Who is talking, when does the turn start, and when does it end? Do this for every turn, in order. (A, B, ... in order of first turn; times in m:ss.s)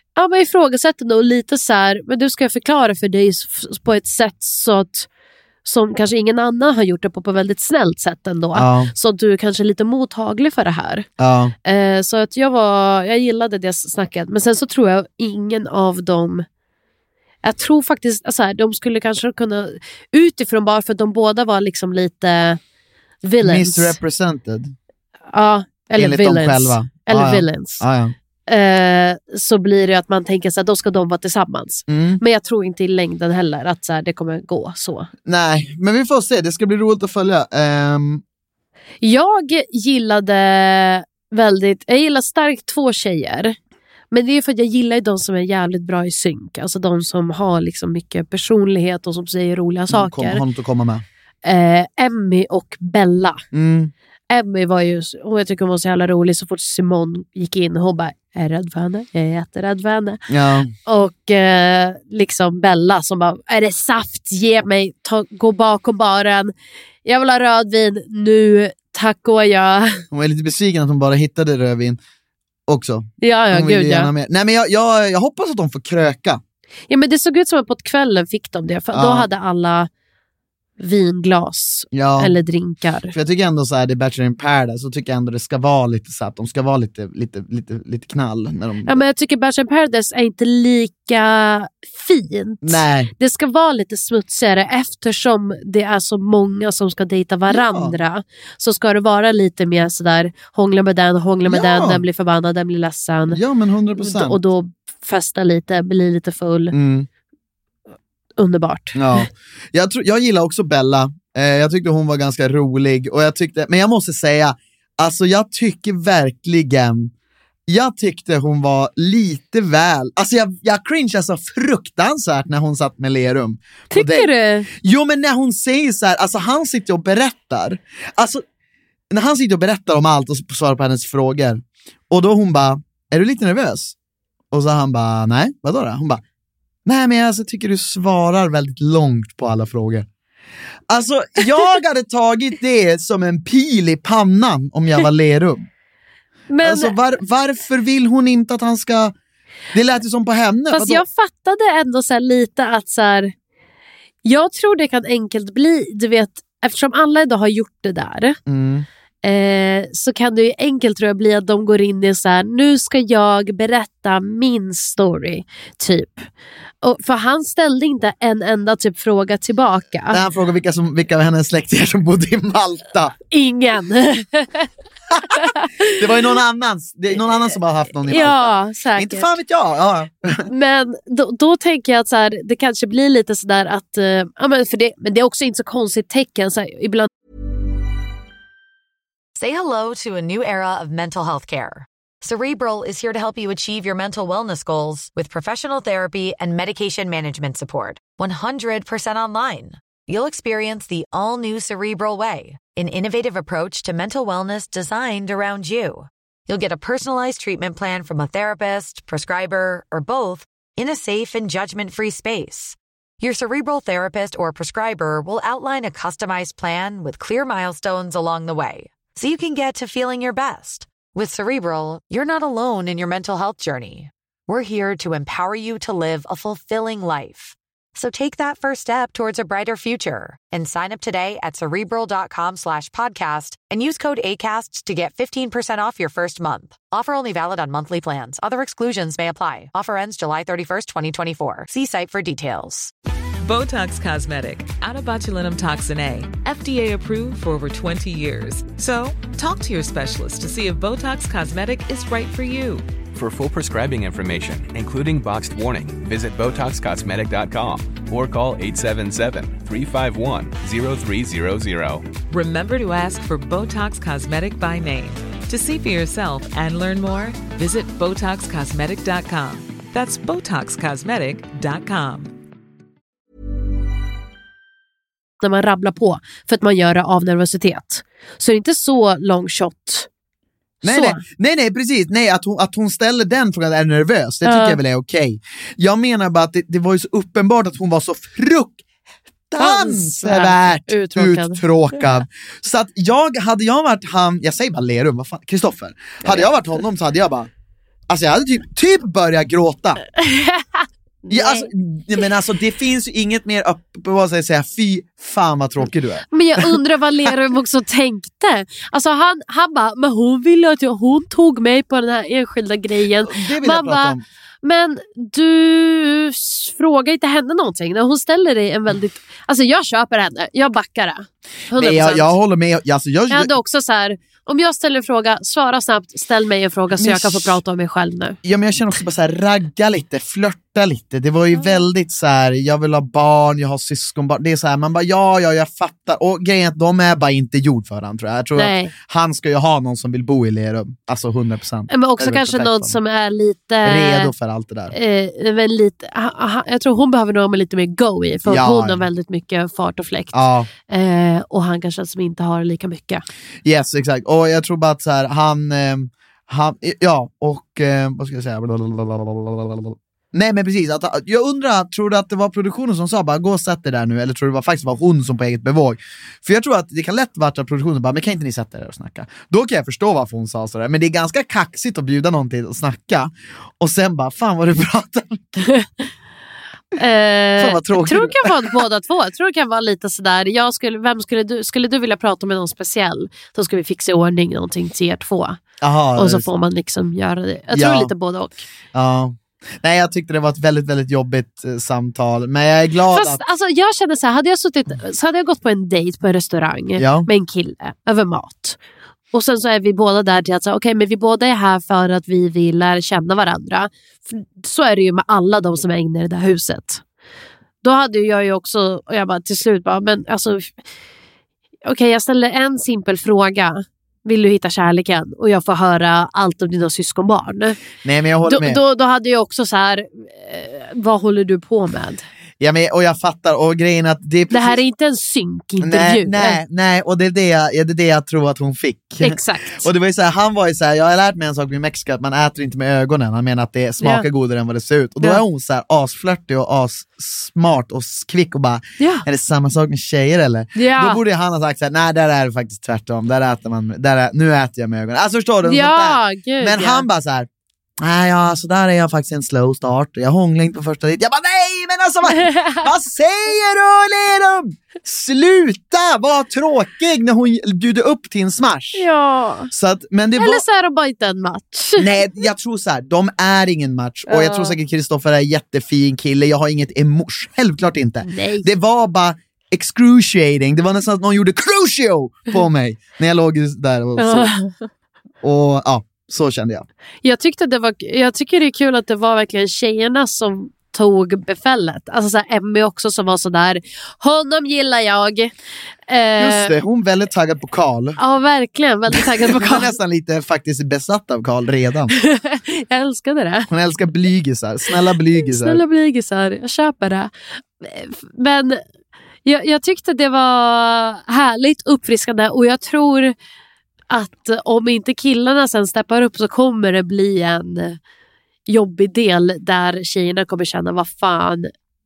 0:00.2-0:05.1 A
0:05.6-0:11.1 A
0:08.6-0:08.9 B
0:11.2-0:11.5 B
0:11.7-0:16.5 A
0:17.4-0:22.6 A
0:23.2-0:24.0 A
0:23.4-0:24.7 B
0:25.3-0:27.8 A
0:26.0-0:28.2 B
0:28.5-0:35.1 A
0:31.9-0:32.2 B
0:35.3-0:38.2 B
0:39.0-0:43.6 A
0:44.1-0:50.4 A
0:49.9-0:51.0 B
0:51.4-0:53.4 A
0:53.5-0:53.9 B
0:54.3-1:00.3 A
1:00.3-1:00.7 B
1:00.9-1:06.5 A
1:07.0-1:10.0 A
1:10.1-1:12.0 B
1:12.7-1:16.4 B
1:13.2-1:14.1 A
1:16.9-1:19.9 A
1:18.9-1:19.3 B
1:20.8-1:23.2 A
1:21.9-1:22.4 B
1:23.1-1:29.0 B
1:28.9-1:43.4 A
1:32.6-1:33.1 B
1:37.5-1:38.0 B
1:41.4-1:42.0 B
1:43.3-1:44.4 B
1:44.0-1:46.8 A
1:46.7-1:47.1 B
1:48.4-1:49.3 A
1:49.0-1:57.1 B
1:57.7-2:08.4 B
2:03.9-2:04.7 A
2:09.1-2:14.0 B
2:14.5-2:16.2 B
2:16.9-2:20.1 B
2:20.9-2:25.7 B
2:26.5-2:27.0 A
2:26.6-2:29.2 B
2:29.7-2:31.0 B
2:30.7-2:33.3 A
2:34.2-2:38.4 A
2:38.5-2:38.9 B
2:39.2-2:46.3 A
2:46.8-2:50.2 A
2:50.1-2:53.2 B
2:53.3-2:54.7 A
2:55.1-3:00.5 B
2:55.2-2:56.3 A
2:58.0-2:59.3 A
3:00.5-3:07.1 A
3:09.4-4:02.9 C
4:03.4-4:12.9 D
4:13.1-4:22.1 E
4:22.3-4:32.3 D
4:35.4-4:40.1 A
4:40.8-4:41.2 A
4:40.8-4:48.8 B
4:44.4-4:44.8 A
4:49.5-4:57.5 B
4:49.6-4:52.2 A
4:58.1-5:00.0 B
5:00.2-5:01.7 A
5:01.3-5:06.8 B
5:06.3-5:22.3 A
5:13.2-5:14.2 B
5:21.7-5:23.5 B
5:23.3-5:28.4 A
5:27.0-5:27.6 B
5:28.4-5:43.0 B
5:31.6-5:31.8 A
5:38.6-5:38.9 A
5:41.9-5:44.3 A
5:43.8-5:45.0 B
5:44.9-5:53.2 A
5:48.5-5:49.0 B
5:50.3-5:50.7 B
5:53.6-6:15.6 B
6:17.0-6:25.6 A
6:17.6-6:18.8 B
6:25.8-6:26.5 B
6:26.2-6:28.6 A
6:27.7-6:28.1 B
6:28.9-6:33.4 B
6:33.1-6:38.8 A
6:37.0-6:37.3 B
6:39.3-6:47.0 A
6:47.8-6:50.8 A
6:51.8-6:57.9 A
6:58.0-6:58.8 B
6:58.4-7:02.2 A
7:02.6-7:04.8 B
7:04.5-7:06.6 A
7:05.8-7:27.5 B
7:09.2-7:09.9 A
7:14.0-7:14.3 A
7:19.0-7:19.2 A
7:20.8-7:21.2 A
7:25.6-7:27.0 A
7:28.0-7:39.1 B
7:32.4-7:32.9 A
7:39.0-7:39.7 A
7:39.7-7:40.6 B
7:40.4-7:42.1 A
7:42.0-7:54.5 B
7:44.3-7:44.8 A
7:48.2-7:48.7 A
7:54.2-7:54.8 A
7:55.4-7:56.9 B
7:57.2-8:05.5 A
8:06.1-8:06.8 A
8:06.4-8:08.2 B
8:08.2-8:09.9 A
8:09.1-8:12.2 B
8:12.1-8:13.7 A
8:13.7-8:15.8 B
8:14.9-8:18.8 A
8:19.5-8:23.4 A
8:24.1-8:28.0 A
8:28.7-8:31.7 A